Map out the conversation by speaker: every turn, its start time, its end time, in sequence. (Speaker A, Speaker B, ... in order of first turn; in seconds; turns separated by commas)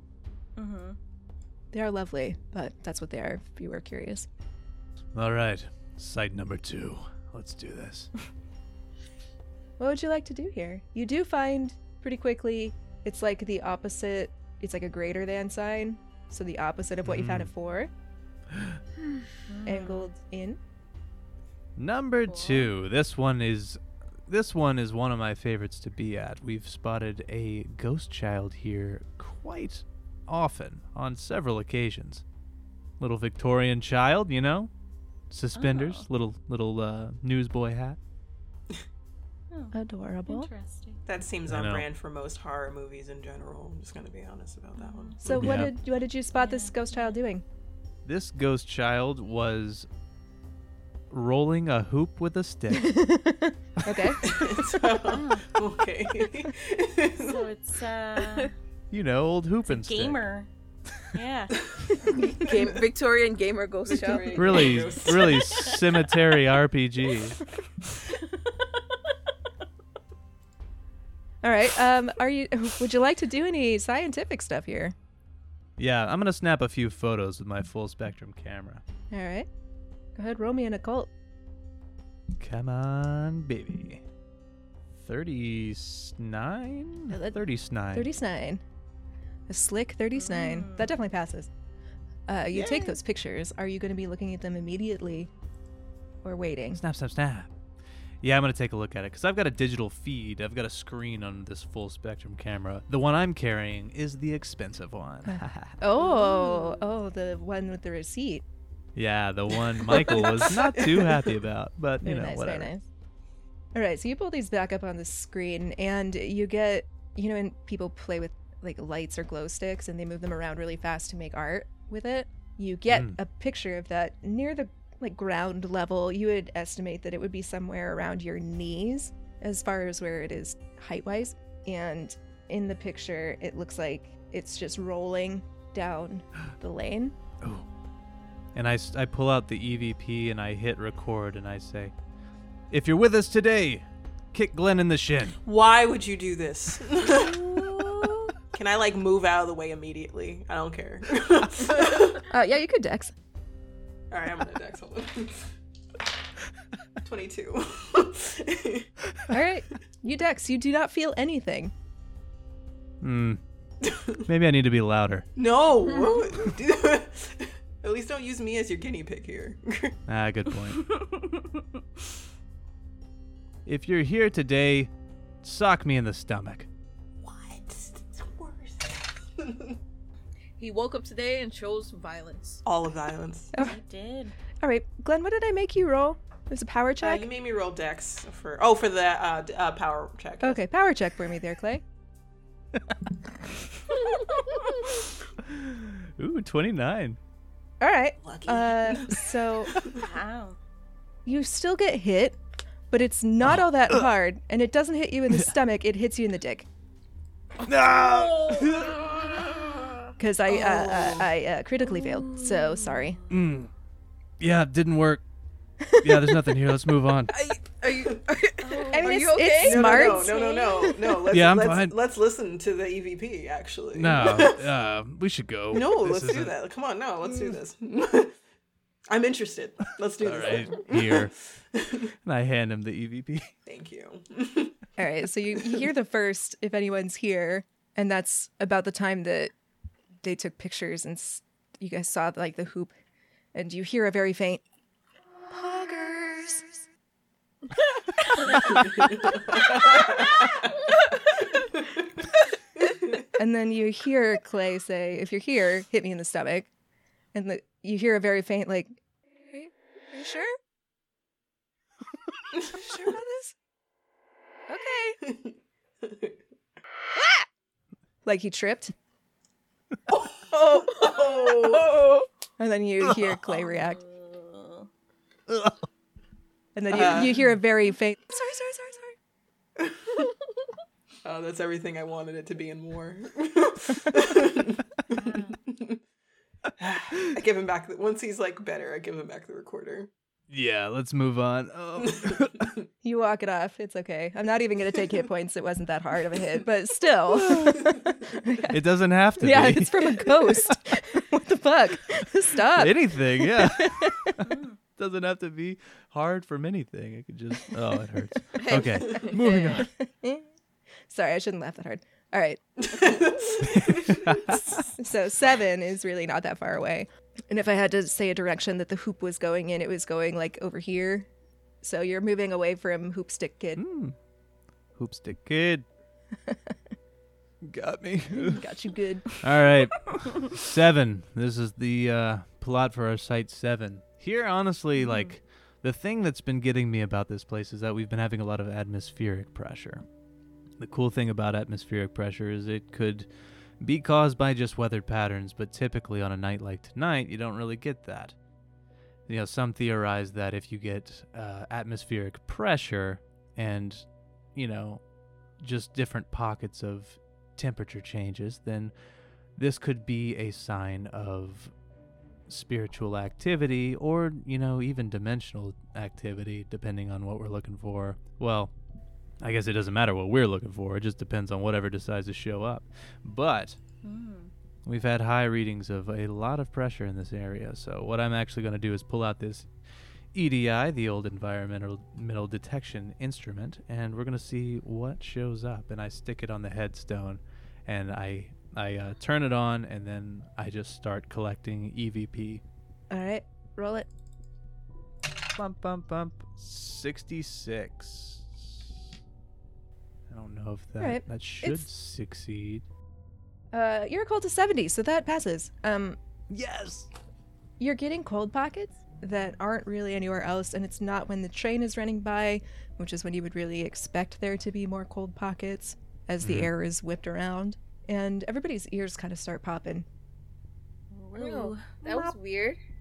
Speaker A: 0.6-1.0, Speaker B: 1.7-4.3, Speaker C: 5.2-8.1, Speaker B: 9.8-17.9, Speaker C: 17.0-17.5, Speaker C: 18.5-18.8, Speaker A: 19.5-20.1, Speaker B: 19.7-20.6, Speaker C: 21.8-32.2, Speaker A: 22.3-22.7, Speaker C: 33.0-34.7, Speaker C: 35.3-38.0, Speaker A: 35.6-36.1, Speaker B: 39.7-40.5, Speaker A: 40.3-41.0, Speaker D: 41.1-45.5, Speaker C: 41.5-41.9, Speaker A: 44.8-45.6, Speaker B: 45.2-47.4, Speaker C: 45.3-45.7, Speaker A: 46.4-47.2, Speaker C: 48.0-49.9, Speaker C: 51.1-53.0, Speaker B: 52.7-54.6, Speaker D: 54.2-57.5, Speaker A: 55.0-55.5, Speaker A: 57.2-58.5, Speaker E: 58.2-58.5, Speaker C: 58.9-60.2, Speaker A: 59.7-60.5, Speaker A: 61.1-61.7, Speaker E: 62.0-64.8, Speaker D: 62.3-62.8, Speaker D: 63.9-65.7, Speaker C: 64.3-67.4, Speaker A: 65.4-65.8, Speaker B: 71.4-75.0, Speaker C: 75.8-78.8, Speaker B: 79.1-79.5, Speaker B: 80.2-81.1, Speaker C: 82.4-84.0, Speaker C: 85.0-88.1, Speaker B: 87.1-87.4, Speaker B: 87.9-88.6, Speaker B: 89.5-91.5, Speaker A: 90.2-90.9, Speaker B: 92.3-95.3, Speaker D: 92.5-92.9, Speaker B: 96.2-96.8, Speaker C: 96.7-97.5, Speaker C: 98.2-105.8, Speaker B: 105.3-108.4, Speaker A: 106.0-106.8, Speaker C: 109.0-112.7, Speaker D: 109.7-111.4, Speaker B: 112.0-112.8, Speaker B: 113.8-137.2, Speaker C: 122.9-123.2, Speaker C: 137.4-137.7, Speaker C: 138.5-141.9, Speaker C: 142.7-145.4, Speaker D: 145.4-152.3, Speaker A: 147.2-148.3, Speaker B: 152.2-153.1, Speaker D: 154.1-155.5, Speaker D: 157.0-158.9, Speaker B: 159.3-161.7, Speaker C: 163.0-163.4, Speaker D: 163.8-164.2, Speaker C: 164.3-165.3, Speaker D: 165.4-170.0, Speaker C: 170.1-170.8, Speaker A: 170.8-171.6, Speaker C: 173.7-174.9, Speaker C: 175.4-176.7, Speaker D: 177.2-179.8, Speaker E: 180.6-182.6, Speaker D: 182.7-183.5, Speaker A: 183.6-184.4, Speaker B: 184.6-187.2, Speaker D: 187.0-190.6, Speaker B: 190.4-191.8, Speaker C: 194.8-197.2, Speaker B: 197.8-199.7, Speaker D: 198.2-200.1, Speaker A: 199.9-200.6, Speaker B: 201.3-202.4, Speaker B: 202.9-206.7, Speaker C: 203.4-204.1, Speaker C: 207.7-209.1, Speaker E: 208.2-208.7, Speaker B: 210.2-213.2, Speaker D: 210.5-211.3, Speaker A: 211.8-213.3, Speaker C: 213.3-213.7, Speaker C: 214.4-215.2, Speaker B: 215.9-216.2, Speaker C: 216.0-217.3, Speaker E: 217.3-220.0, Speaker A: 218.6-219.4, Speaker B: 218.9-221.1, Speaker D: 219.6-224.7, Speaker A: 220.0-220.9, Speaker C: 221.3-222.0, Speaker C: 223.9-226.5, Speaker D: 225.7-228.3, Speaker D: 229.1-232.1, Speaker C: 230.2-231.3, Speaker C: 232.2-233.5, Speaker D: 233.7-234.8, Speaker B: 235.0-239.5, Speaker B: 240.2-242.9, Speaker B: 243.5-244.6, Speaker B: 245.5-246.8, Speaker D: 248.6-250.8, Speaker D: 251.5-252.2, Speaker D: 252.8-253.2, Speaker B: 253.3-256.7, Speaker B: 257.3-259.0, Speaker B: 259.5-260.6, Speaker B: 262.6-263.6, Speaker B: 264.7-265.2, Speaker D: 265.2-266.4, Speaker B: 267.2-267.4, Speaker B: 268.2-268.9, Speaker D: 270.1-272.1, Speaker E: 270.5-272.3, Speaker B: 272.6-274.0, Speaker A: 273.4-274.9, Speaker C: 275.5-275.9, Speaker B: 276.8-279.1, Speaker D: 276.9-277.5, Speaker D: 281.2-286.0, Speaker A: 285.1-285.6, Speaker D: 286.8-290.1, Speaker C: 290.5-292.7, Speaker D: 292.0-292.9, Speaker B: 293.0-298.8, Speaker C: 298.7-300.7, Speaker B: 299.4-304.4, Speaker C: 302.8-309.9, Speaker A: 304.4-304.8, Speaker E: 308.6-309.3, Speaker B: 309.2-310.5, Speaker B: 311.1-312.6, Speaker D: 312.8-314.9, Speaker C: 314.2-314.8, Speaker B: 314.9-321.3, Speaker B: 321.8-323.8, Speaker C: 323.8-324.2, Speaker C: 325.0-325.9, Speaker B: 326.5-326.7, Speaker C: 327.6-328.6, Speaker B: 328.3-329.3, Speaker C: 329.4-340.0, Speaker A: 335.0-335.3, Speaker C: 340.8-348.4, Speaker C: 349.3-355.0, Speaker C: 355.6-358.9, Speaker C: 359.6-361.7, Speaker C: 362.5-368.7, Speaker C: 369.4-373.8, Speaker A: 374.0-374.5, Speaker C: 374.9-379.7, Speaker C: 380.3-392.6, Speaker B: 393.1-394.1, Speaker C: 395.6-399.1, Speaker C: 400.3-402.9, Speaker B: 401.0-401.8, Speaker B: 403.7-406.2, Speaker C: 406.5-407.1, Speaker B: 407.8-420.1, Speaker C: 416.4-416.7, Speaker A: 421.1-422.3, Speaker E: 421.4-422.8